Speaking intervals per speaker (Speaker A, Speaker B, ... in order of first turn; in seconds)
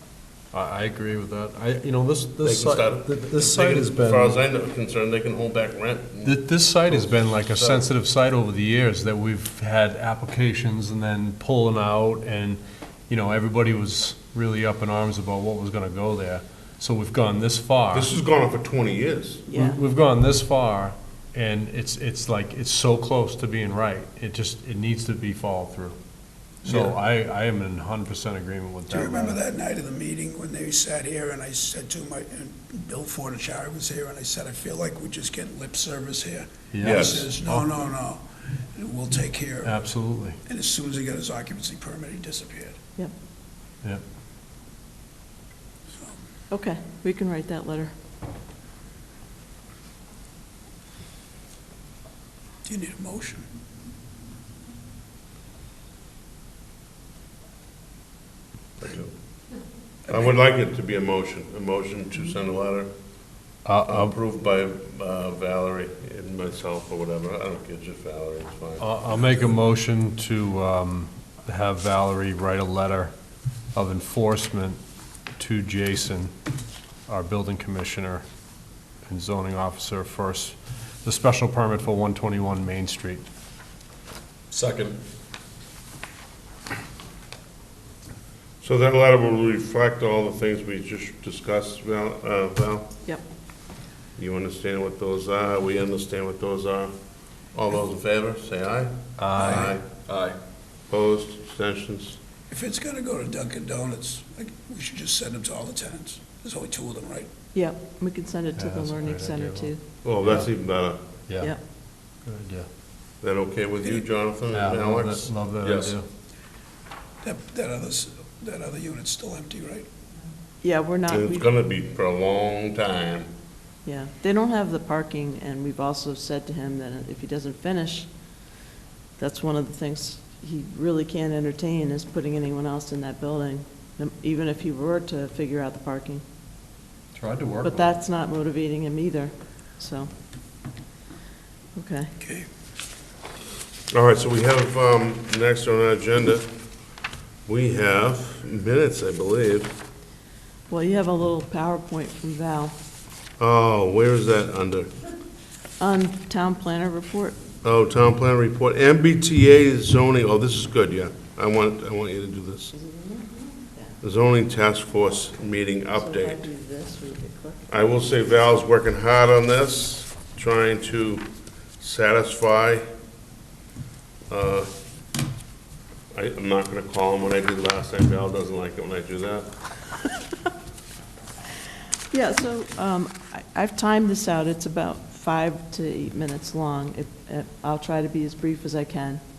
Speaker A: 0.5-4.4, 6.2-18.1, 19.5-25.9, 26.6-29.4, 36.7-37.8, 39.6-40.4, 63.6-64.2, 68.8-73.1, 73.7-74.8, 75.4-76.3, 77.1-78.2, 79.1-83.2, 84.5-85.0, 99.2-100.3, 108.6-109.7, 111.3-111.5, 112.2-112.7, 114.5-116.0, 137.2-137.9
Speaker B: 2.4-7.9, 17.9-19.5, 26.6-26.9, 36.8-37.3, 58.8-59.1, 60.1-62.9, 63.9-69.5, 88.6-93.0, 94.2-96.9, 97.5-99.9, 100.9-102.2, 110.0-111.0, 113.2-116.0, 121.1-123.3, 143.9-146.5, 147.5-149.8, 153.4-154.9, 157.6-162.7, 164.0-166.5, 167.7-171.3, 171.8-172.9, 174.3-174.7, 176.1-179.5
Speaker C: 19.5-19.8, 46.5-47.9, 107.5-109.8, 120.6-121.5, 123.8-128.1, 129.2-136.2, 137.6-140.1, 141.8-142.1, 150.7-152.8, 155.8-157.4, 162.7-163.9, 166.0-168.1, 182.1-189.2
Speaker D: 28.9-39.9, 40.5-42.8, 52.6-53.5, 99.4-99.7, 102.5-107.3, 117.2-119.9, 142.2-142.5